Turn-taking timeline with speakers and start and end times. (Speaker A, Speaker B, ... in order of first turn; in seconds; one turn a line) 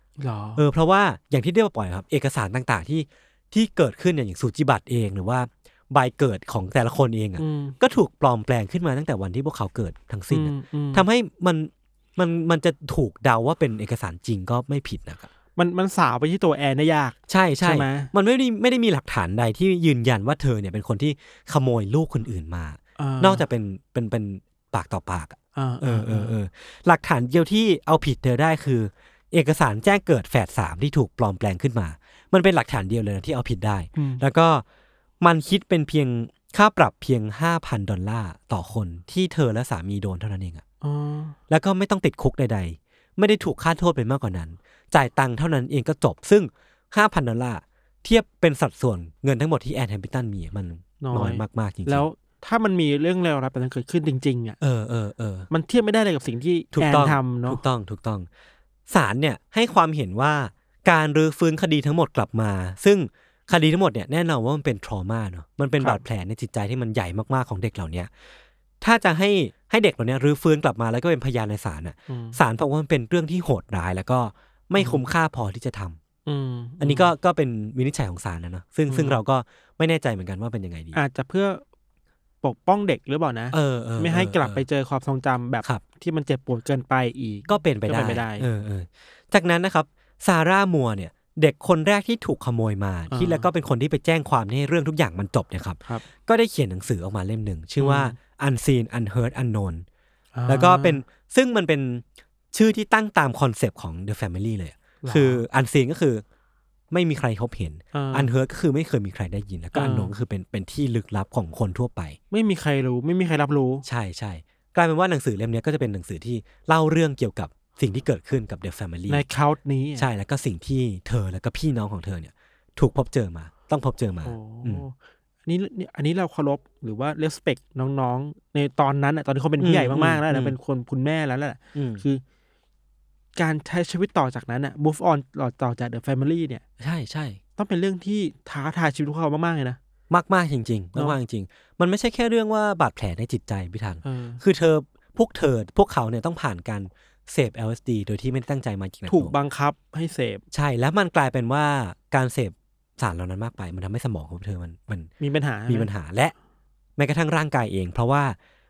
Speaker A: 0.2-0.6
Speaker B: 0.6-15.3
Speaker A: 7.4-7.8
Speaker A: 10.3-11.1
Speaker A: 15.6-18.1
Speaker B: 17.3-34.6
Speaker A: 23.0-23.4
Speaker A: 25.6-26.4
Speaker A: 34.0-34.2
Speaker B: 35.2-40.6
Speaker A: 40.8-41.4
Speaker B: 41.5-52.0
Speaker A: 51.0-54.6
Speaker B: 54.6-55.5
Speaker A: 55.5-57.6
Speaker B: 56.7-58.3
Speaker B: 58.9-68.1
Speaker B: 68.8-76.0
Speaker A: 72.1-72.4
Speaker A: 74.8-75.0
Speaker A: 76.3-77.1
Speaker B: 76.8-81.0
Speaker A: 78.9-79.2
Speaker A: 80.9-81.6
Speaker A: 82.4-88.5
Speaker B: 83.5-84.7
Speaker B: 87.5-99.8
Speaker A: 93.1-93.5
Speaker A: 97.8-98.2
Speaker A: 100.4-101.0
Speaker B: 100.5-106.2
Speaker A: 105.0-105.5
Speaker B: 106.9-112.2
Speaker A: 107.9-108.3
Speaker A: 109.7-110.2
Speaker A: 112.3-113.8
Speaker B: 113.8-119.2
Speaker A: 119.1-120.1
Speaker B: 120.0-124.8
Speaker A: 124.2-124.9
Speaker A: 125.5-132.2
Speaker B: 129.6-130.6
Speaker B: 131.8-132.0
Speaker A: 133.4-136.6
Speaker B: 136.8-137.4
Speaker A: 137.6-139.8
Speaker B: 140.1-149.3
Speaker A: 144.0-144.4
Speaker A: 149.1-150.4
Speaker B: 150.5-155.1
Speaker A: 155.2-155.9
Speaker B: 155.7-156.3
Speaker B: 157.0-158.4